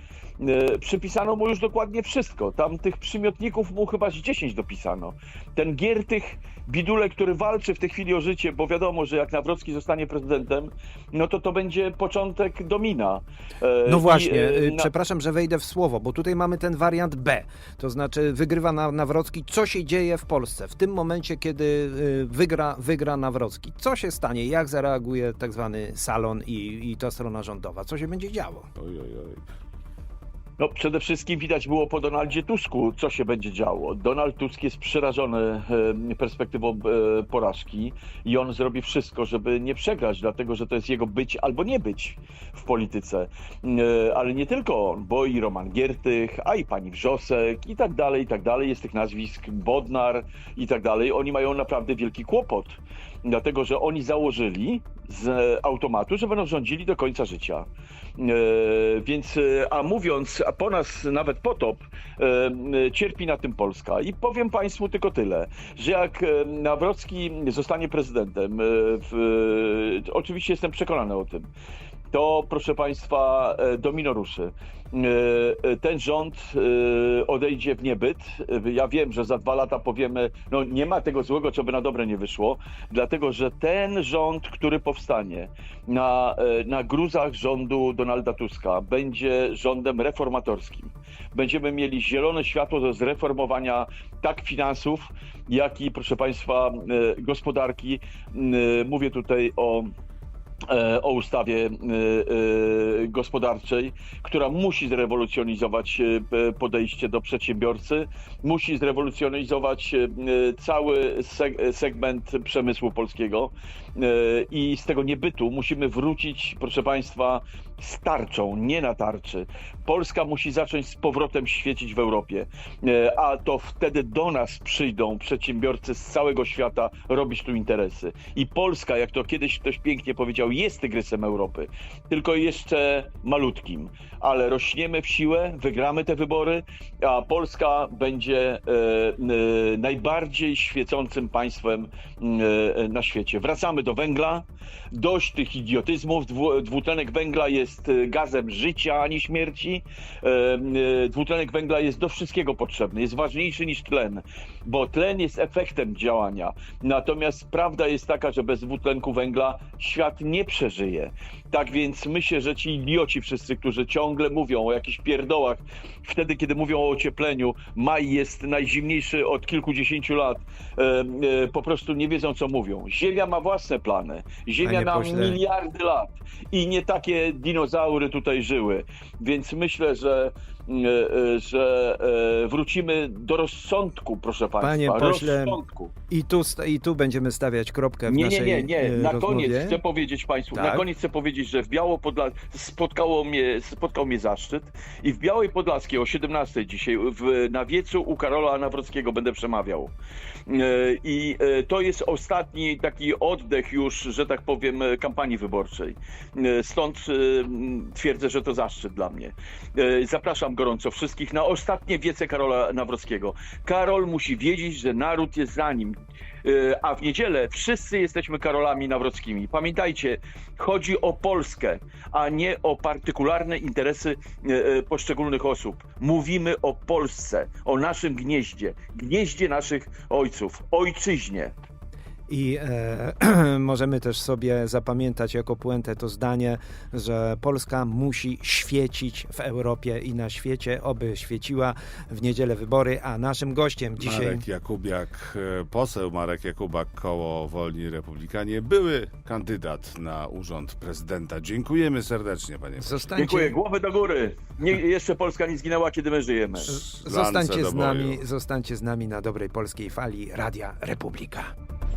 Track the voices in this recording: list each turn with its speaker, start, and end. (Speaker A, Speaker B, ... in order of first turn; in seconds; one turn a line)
Speaker A: 0.4-14.9
Speaker B: 13.9-28.7
Speaker C: 28.8-29.4
Speaker A: 30.6-71.5
Speaker A: 72.1-99.9
Speaker A: 100.7-185.9
Speaker B: 174.6-175.4
Speaker B: 184.6-189.8
Speaker A: 188.1-199.9
Speaker B: 190.5-190.8
Speaker A: 200.5-231.6
Speaker B: 232.3-244.4
Speaker C: 244.0-253.1
Speaker B: 252.8-253.6
Speaker A: 253.2-256.7
Speaker C: 256.7-258.2
Speaker B: 256.7-261.5